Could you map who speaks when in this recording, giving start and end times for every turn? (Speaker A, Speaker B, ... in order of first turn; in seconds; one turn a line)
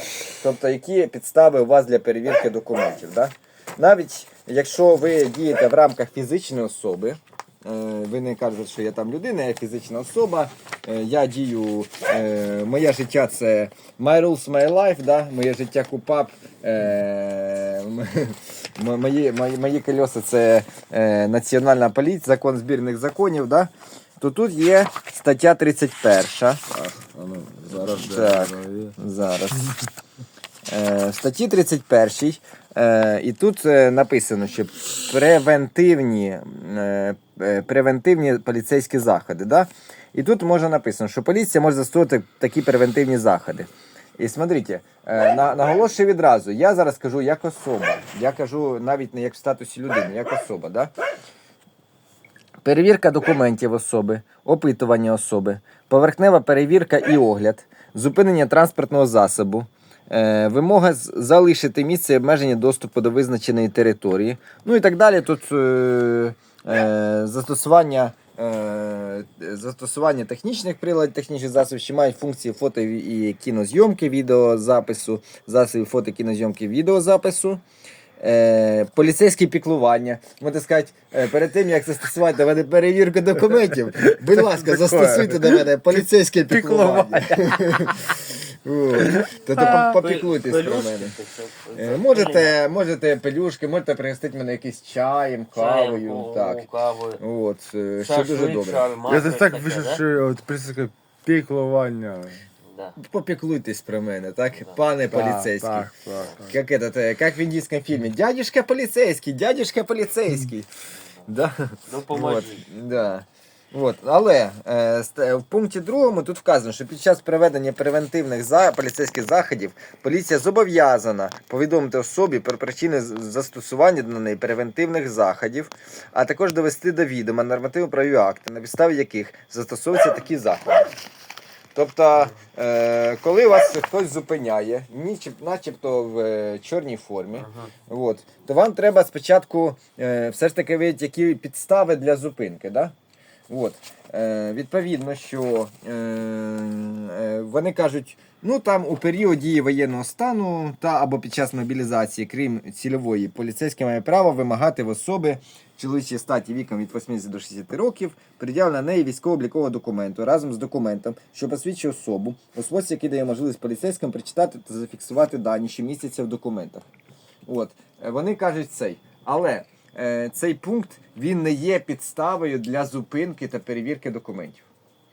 Speaker A: 0.4-26.6
Speaker B: 26.7-28.9
Speaker A: 27.7-29.7
Speaker A: 30.7-50.9
Speaker A: 52.6-77.6
Speaker A: 78.2-91.1
Speaker B: 84.1-85.7
Speaker B: 86.5-88.0
Speaker B: 89.0-89.9
Speaker C: 89.8-92.5
Speaker A: 91.7-96.6
Speaker C: 95.5-97.2
Speaker A: 97.2-98.9
Speaker C: 98.0-100.0
Speaker B: 99.1-102.4
Speaker C: 102.7-103.0
Speaker A: 103.0-105.9
Speaker B: 105.1-106.5
Speaker A: 106.4-110.7
Speaker A: 111.3-130.9
Speaker C: 111.9-112.7
Speaker A: 131.7-142.9
Speaker C: 137.4-137.7
Speaker A: 143.5-166.9
Speaker A: 167.4-174.7